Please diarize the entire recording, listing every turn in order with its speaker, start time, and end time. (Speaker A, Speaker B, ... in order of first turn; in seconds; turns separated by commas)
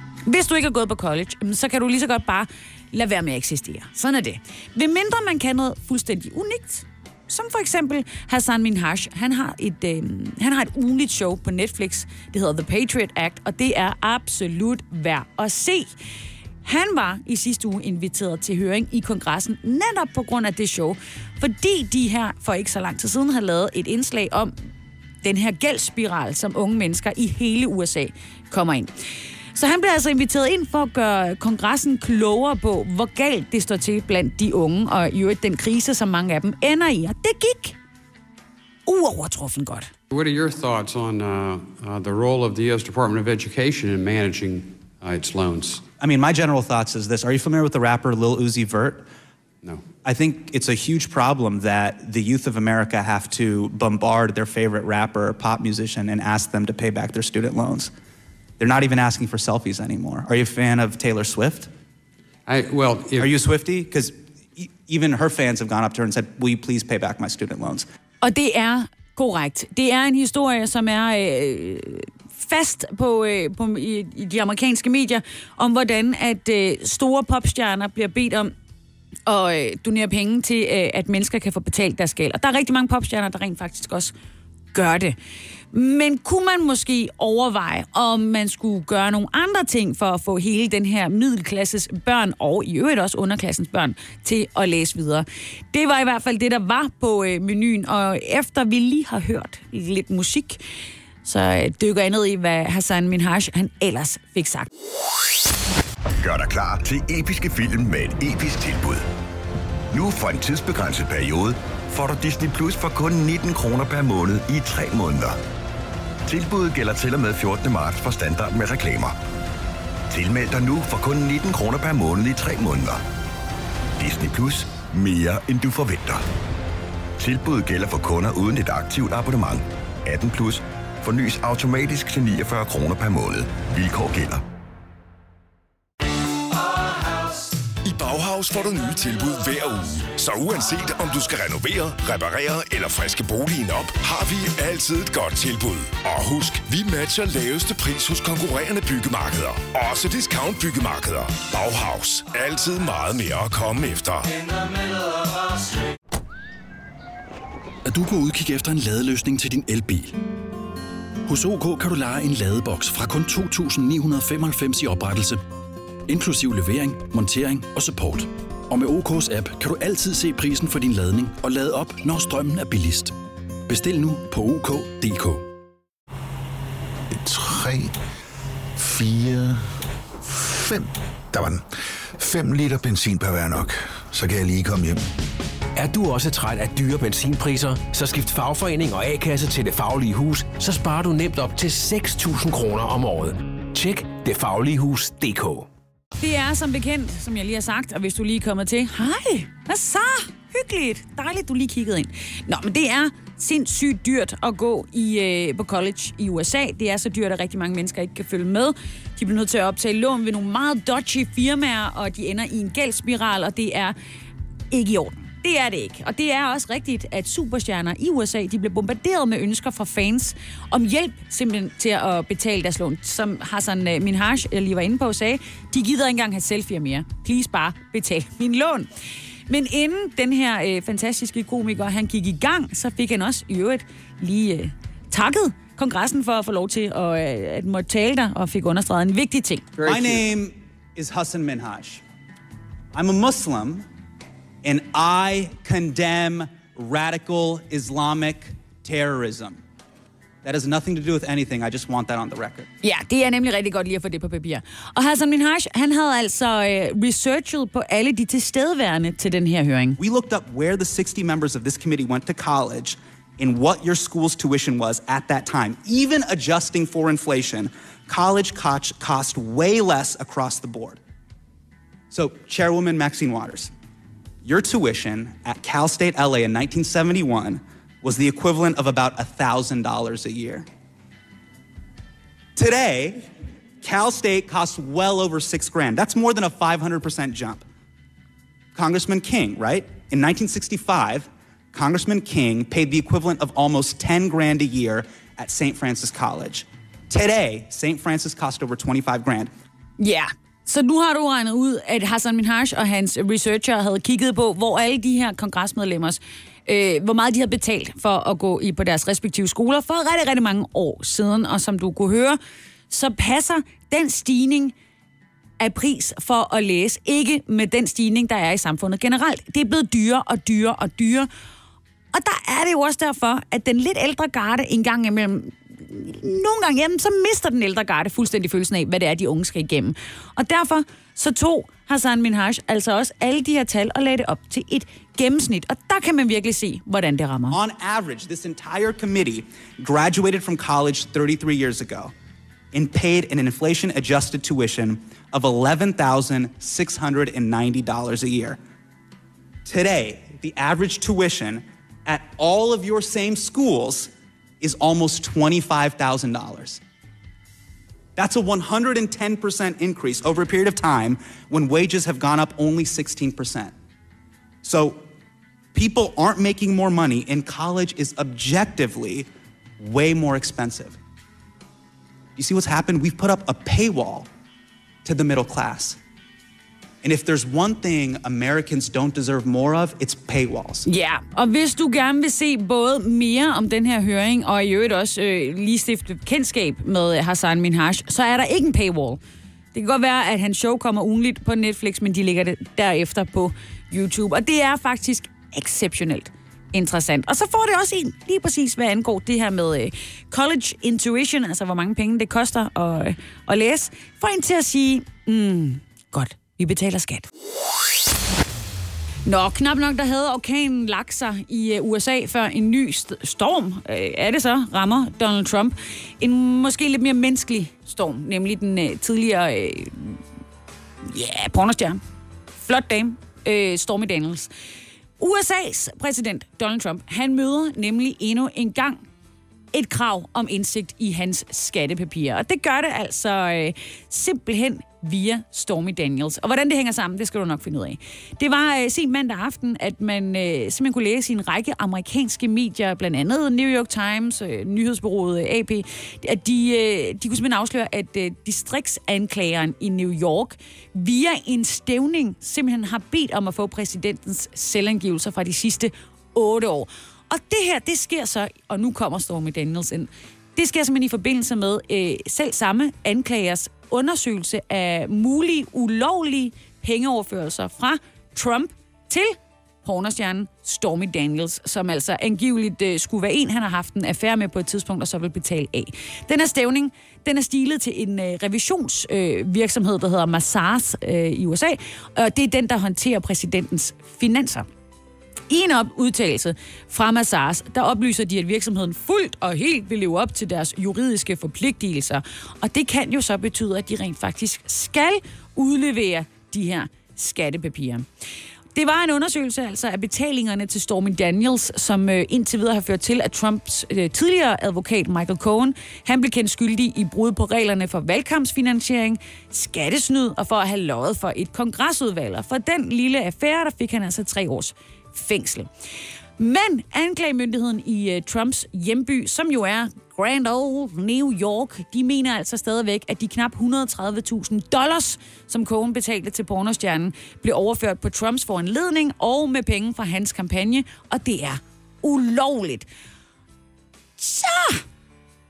Speaker A: 0.3-15.9, Speaker A: 16.6-24.5, Speaker A: 25.2-28.9, Speaker A: 29.6-37.8, Speaker A: 38.9-39.9, Speaker B: 40.1-45.8, Speaker C: 46.0-49.1, Speaker C: 50.0-57.9, Speaker C: 58.6-61.7, Speaker B: 62.5-63.3, Speaker C: 63.2-67.9, Speaker A: 68.2-78.5, Speaker A: 79.3-84.1, Speaker A: 84.7-85.2, Speaker A: 85.7-100.6, Speaker A: 101.2-104.7, Speaker D: 106.2-109.1, Speaker D: 109.9-115.4, Speaker D: 116.3-119.2, Speaker D: 120.1-123.0, Speaker D: 124.0-126.2, Speaker D: 127.2-134.4, Speaker E: 137.8-154.4, Speaker F: 157.9-160.2, Speaker F: 161.3-165.4, Speaker F: 166.1-173.2, Speaker F: 173.7-175.5, Speaker G: 177.1-177.9, Speaker G: 178.8-181.6, Speaker G: 182.2-185.0, Speaker H: 185.8-195.7, Speaker A: 196.2-213.9, Speaker A: 214.7-228.9, Speaker A: 229.5-239.7, Speaker B: 239.8-240.2, Speaker C: 239.8-242.0, Speaker C: 242.9-243.8, Speaker C: 244.6-249.6, Speaker C: 250.4-252.7, Speaker A: 252.8-260.0, Speaker C: 260.0-271.0, Speaker C: 272.1-273.7, Speaker C: 274.4-280.7, Speaker C: 282.6-283.2, Speaker C: 283.8-287.6, Speaker C: 288.8-299.5, Speaker A: 300.0-312.4, Speaker A: 312.9-314.7, Speaker A: 315.6-321.3, Speaker A: 322.1-337.6, Speaker C: 337.5-342.1, Speaker C: 342.7-348.6, Speaker C: 349.6-354.1, Speaker C: 354.6-356.8, Speaker C: 358.2-363.7, Speaker C: 364.6-365.0, Speaker C: 365.7-369.3, Speaker C: 369.8-371.0, Speaker C: 372.4-374.3, Speaker C: 375.1-376.0, Speaker C: 377.0-380.9, Speaker A: 380.9-389.2, Speaker A: 389.7-407.3, Speaker A: 409.2-420.2, Speaker A: 421.1-422.0, Speaker A: 422.6-424.5, Speaker A: 425.2-429.0, Speaker A: 429.7-484.7, Speaker A: 485.5-498.1, Speaker A: 498.8-515.7, Speaker A: 516.4-532.9, Speaker A: 534.2-534.8